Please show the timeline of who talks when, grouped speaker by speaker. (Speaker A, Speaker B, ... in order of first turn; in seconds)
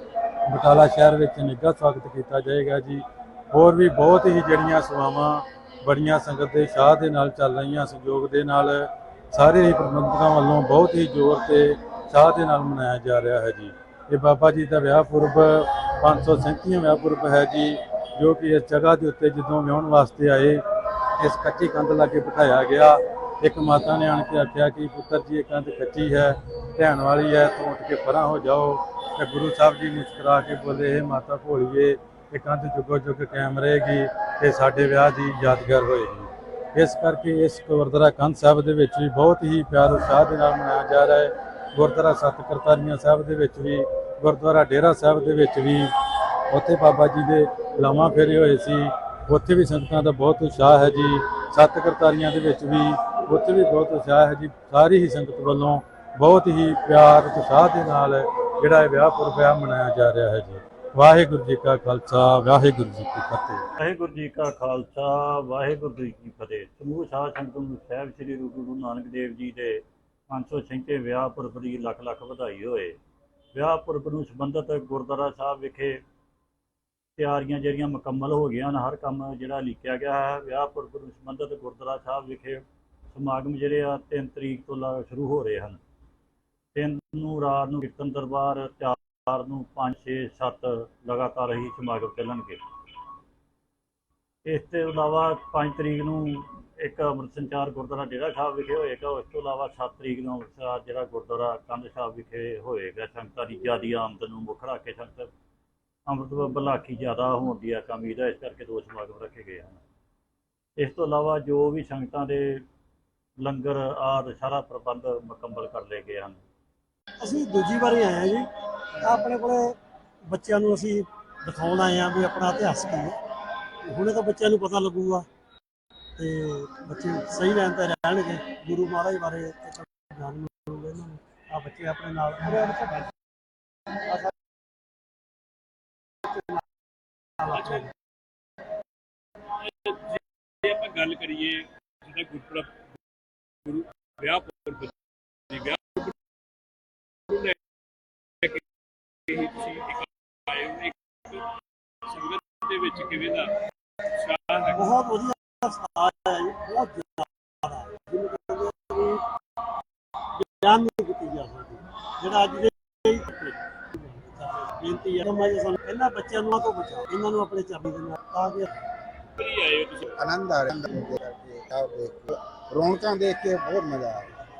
Speaker A: 0.5-20.6, 21.2-45.9, 46.5-63.6
Speaker B: 63.8-73.0, 73.5-76.0, 77.2-85.8, 86.8-92.6, 94.5-105.3, 106.1-109.8, 110.8-112.7, 113.4-116.4
Speaker C: 117.2-118.5, 119.0-119.8, 120.3-123.2, 123.8-125.3, 126.2-133.2, 133.9-134.3, 136.2-136.7, 137.4-137.9, 154.7-159.3, 160.3-168.8
Speaker D: 137.5-137.9, 139.6-142.9, 143.7-145.0, 145.5-146.2, 147.3-147.6, 149.3-151.5, 152.1-154.8, 169.4-170.1
Speaker E: 170.1-174.4